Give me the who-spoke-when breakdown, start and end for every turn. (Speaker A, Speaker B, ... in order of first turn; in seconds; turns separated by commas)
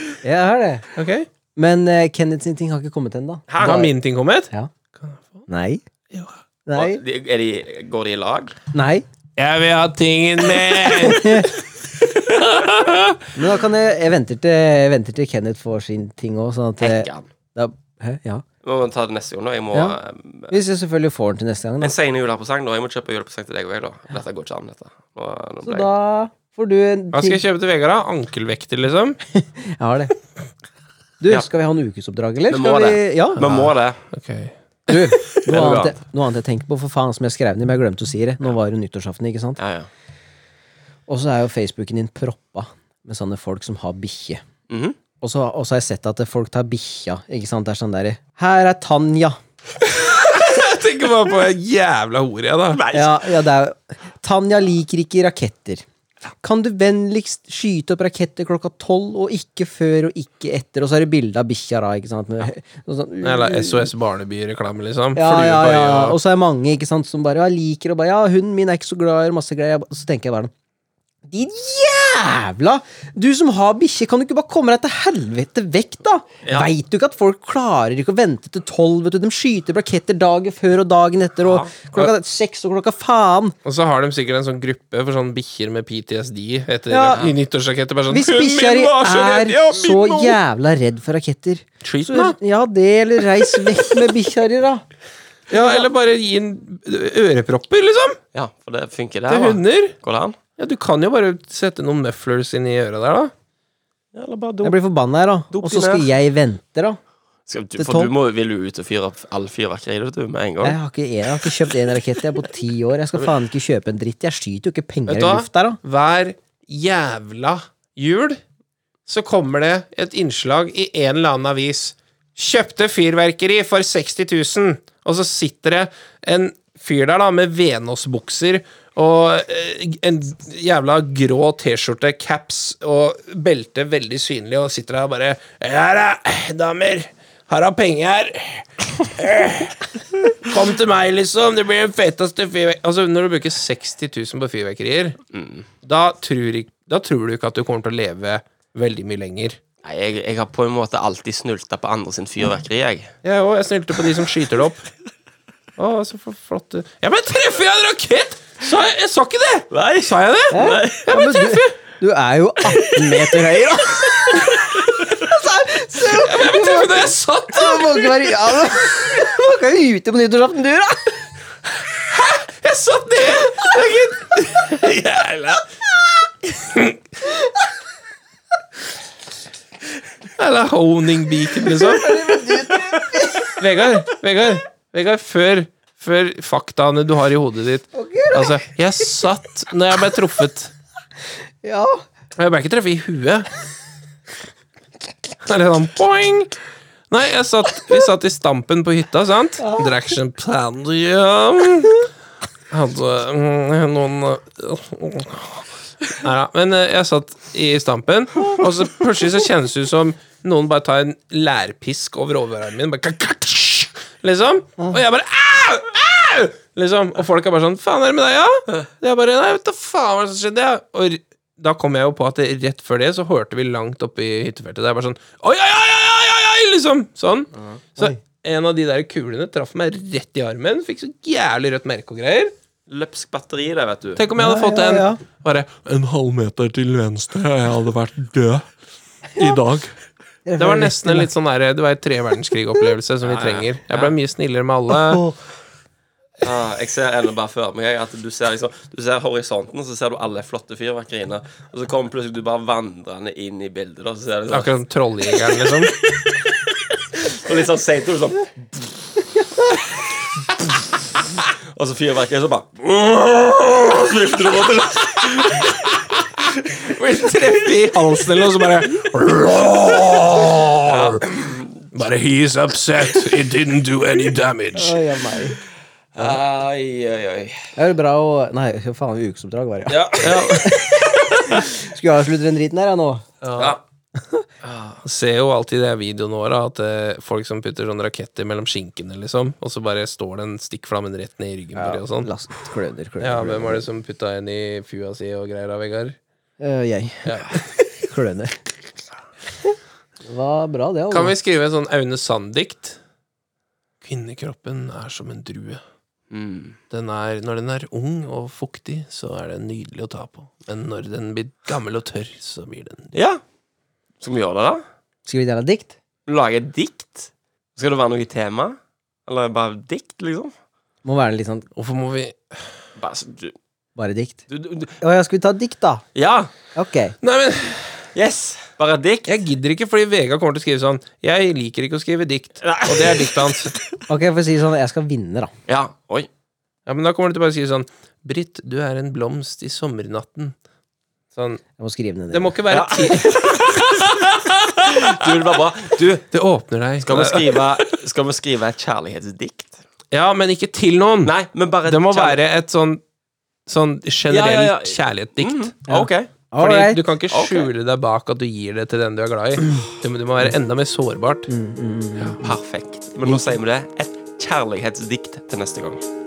Speaker A: 0.2-0.9, Speaker B: 1.0-1.3, Speaker A: 1.6-3.9, Speaker C: 3.5-3.9, Speaker B: 3.6-5.5, Speaker A: 5.5-5.8, Speaker A: 6.7-7.0, Speaker C: 6.8-8.6, Speaker A: 8.7-9.1, Speaker B: 9.4-13.2, Speaker A: 10.9-11.5, Speaker A: 13.4-18.4, Speaker C: 16.8-17.3, Speaker C: 18.6-20.6, Speaker A: 20.5-21.9, Speaker C: 21.8-25.9, Speaker A: 25.6-27.4, Speaker B: 27.1-29.2, Speaker A: 29.3-30.1, Speaker A: 31.2-33.5, Speaker C: 32.5-34.0, Speaker B: 33.4-34.5, Speaker A: 34.9-39.6, Speaker C: 35.4-36.0, Speaker C: 39.6-39.9, Speaker A: 41.1-44.4, Speaker C: 44.7-45.0, Speaker A: 45.2-49.4, Speaker B: 49.9-52.8, Speaker C: 52.7-53.3, Speaker A: 52.9-55.9, Speaker A: 56.4-63.9, Speaker B: 63.2-66.2, Speaker A: 65.2-70.5, Speaker A: 71.3-83.6, Speaker C: 76.4-76.7, Speaker C: 81.4-81.7, Speaker B: 83.7-90.4, Speaker A: 86.9-87.3, Speaker A: 88.1-94.8, Speaker B: 91.8-92.4, Speaker B: 95.5-98.2, Speaker A: 95.5-95.9, Speaker C: 98.3-100.4, Speaker B: 99.3-100.0, Speaker B: 100.6-103.3, Speaker C: 104.1-104.8, Speaker A: 104.6-107.0, Speaker C: 105.5-106.1, Speaker C: 107.5-110.8, Speaker A: 107.8-108.1, Speaker A: 110.6-115.8, Speaker B: 115.1-118.4, Speaker B: 119.1-145.2, Speaker C: 145.3-145.7, Speaker B: 145.8-149.6, Speaker C: 149.8-153.1, Speaker B: 153.2-154.9, Speaker B: 155.8-161.7, Speaker C: 159.7-161.2, Speaker A: 160.5-171.2, Speaker B: 166.0-168.2, Speaker B: 171.9-175.7, Speaker B: 176.6-177.0, Speaker B: 180.4-182.4, Speaker A: 181.6-183.5, Speaker B: 183.5-190.7, Speaker A: 187.9-188.6, Speaker A: 191.6-192.0, Speaker B: 192.4-193.5, Speaker B: 195.5-196.6, Speaker B: 197.1-202.1, Speaker A: 199.6-199.9, Speaker B: 202.7-232.5, Speaker C: 232.9-234.2, Speaker B: 234.2-235.9, Speaker A: 234.4-235.2, Speaker C: 235.9-238.7, Speaker C: 239.4-239.9, Speaker B: 239.4-239.7, Speaker A: 240.5-241.3, Speaker B: 240.6-245.2, Speaker C: 243.2-244.1, Speaker C: 246.4-254.7, Speaker B: 254.5-255.9, Speaker C: 256.2-258.9, Speaker C: 261.4-265.8, Speaker B: 265.5-266.2, Speaker C: 266.5-266.9, Speaker B: 266.8-271.2, Speaker C: 270.9-271.9, Speaker B: 271.9-275.0, Speaker A: 274.8-275.6, Speaker C: 276.1-277.6, Speaker A: 277.8-283.3, Speaker C: 279.9-280.3, Speaker B: 280.2-280.9, Speaker B: 283.4-283.8, Speaker A: 284.2-284.5, Speaker C: 284.6-285.0, Speaker B: 285.0-292.3, Speaker A: 291.8-293.9, Speaker B: 293.2-296.2, Speaker A: 296.6-298.6, Speaker B: 297.3-297.6, Speaker A: 299.6-301.3, Speaker B: 301.1-303.0, Speaker B: 304.0-305.8, Speaker C: 306.3-306.8, Speaker B: 306.9-313.1, Speaker C: 313.1-313.4, Speaker C: 314.2-314.8, Speaker A: 315.3-316.0, Speaker C: 316.3-320.5, Speaker A: 321.1-321.7, Speaker B: 321.8-322.6, Speaker C: 323.0-323.6, Speaker A: 324.0-324.5, Speaker C: 324.5-325.0, Speaker A: 325.0-326.1, Speaker C: 326.2-326.5, Speaker A: 326.8-327.1, Speaker B: 327.2-328.0, Speaker C: 328.1-329.4, Speaker B: 329.3-333.7, Speaker C: 332.6-333.9, Speaker A: 334.1-335.5, Speaker C: 335.7-336.3, Speaker B: 336.9-340.6, Speaker B: 341.3-341.6, Speaker A: 341.8-342.6, Speaker B: 342.3-345.1, Speaker C: 342.7-344.2, Speaker C: 344.8-346.3, Speaker B: 346.3-347.9, Speaker C: 347.0-349.8, Speaker B: 350.1-351.3, Speaker C: 351.2-352.4, Speaker B: 351.9-353.0, Speaker B: 353.7-355.7, Speaker C: 354.3-356.3, Speaker A: 355.9-357.0, Speaker B: 356.6-361.5, Speaker C: 357.3-357.7, Speaker A: 361.5-362.6, Speaker C: 362.4-366.0, Speaker A: 363.2-363.6